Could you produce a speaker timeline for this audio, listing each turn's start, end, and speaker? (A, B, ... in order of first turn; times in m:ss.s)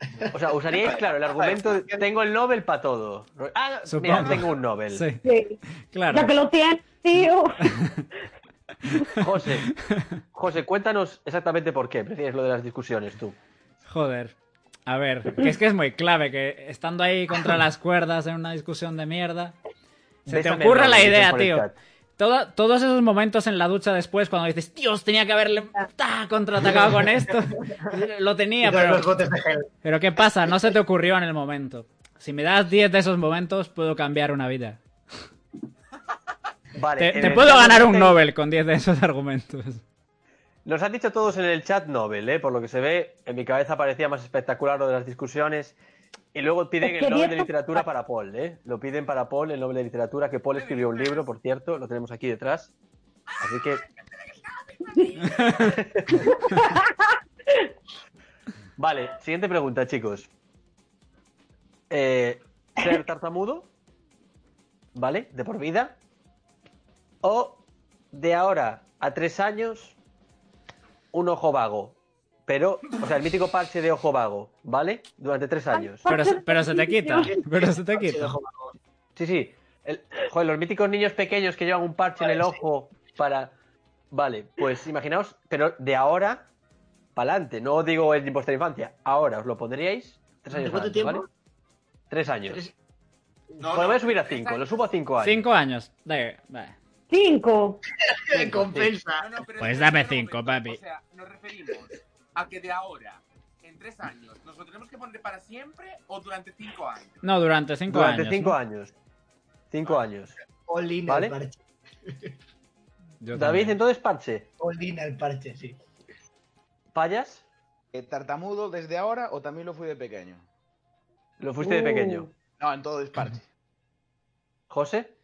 0:00.3-0:05.0 A
0:00.7-0:02.0 B
0:03.9-0:05.2 C
0:05.2-0:07.7 D
0:05.8-0:06.3 C
0:07.6-0:08.0 C
0:08.9-0:09.2 C
0:09.2-0:09.7 A
0:10.3-0:13.4 A
0:13.9-0:14.3 C
0:14.8-0:19.6 C
0:20.3-0:21.7 A
0:20.3-0:29.1 C
0:26.6-0:27.8 E
0:28.6-0:29.7 E
0:29.8-0:34.8 C
0:36.8-0:38.2 A
0:37.0-0:39.8 C
0:40.6-0:45.8 A
0:46.3-0:52.7 A
0:46.8-0:47.8 D
0:50.5-0:51.3 F
0:53.4-0:53.8 A
0:54.6-0:55.8 F
0:55.4-0:55.6 C
0:55.5-0:56.4 A
0:56.4-0:56.9 D
0:58.8-1:00.3 A
1:01.9-1:03.7 A
1:04.9-1:06.0 A
1:07.2-1:10.0 A
1:11.1-1:16.1 A
1:15.7-1:17.3 D
1:16.1-1:18.3 C
1:17.2-1:18.7 E
1:19.2-1:23.5 A
1:22.2-1:22.6 E
1:24.1-1:26.5 A
1:27.2-1:31.2 A
1:30.5-1:31.3 E
1:32.1-1:32.6 A
1:33.6-1:34.7 F
1:33.7-1:35.4 A
1:35.2-1:36.8 C
1:37.1-1:37.8 D
1:38.1-1:39.3 E
1:38.3-1:38.9 A
1:39.2-1:47.2 F
1:39.6-1:40.8 C
1:47.2-1:48.6 C
1:47.9-1:48.9 A
1:49.7-1:50.3 A
1:50.7-1:52.3 E
1:51.1-1:51.4 A
1:53.2-1:53.8 C
1:53.3-1:54.5 A
1:54.6-1:55.8 E
1:56.9-1:57.4 A
1:57.9-2:00.4 B
2:01.4-2:02.3 A
2:01.6-2:02.3 D
2:02.6-2:03.4 B
2:04.7-2:05.1 A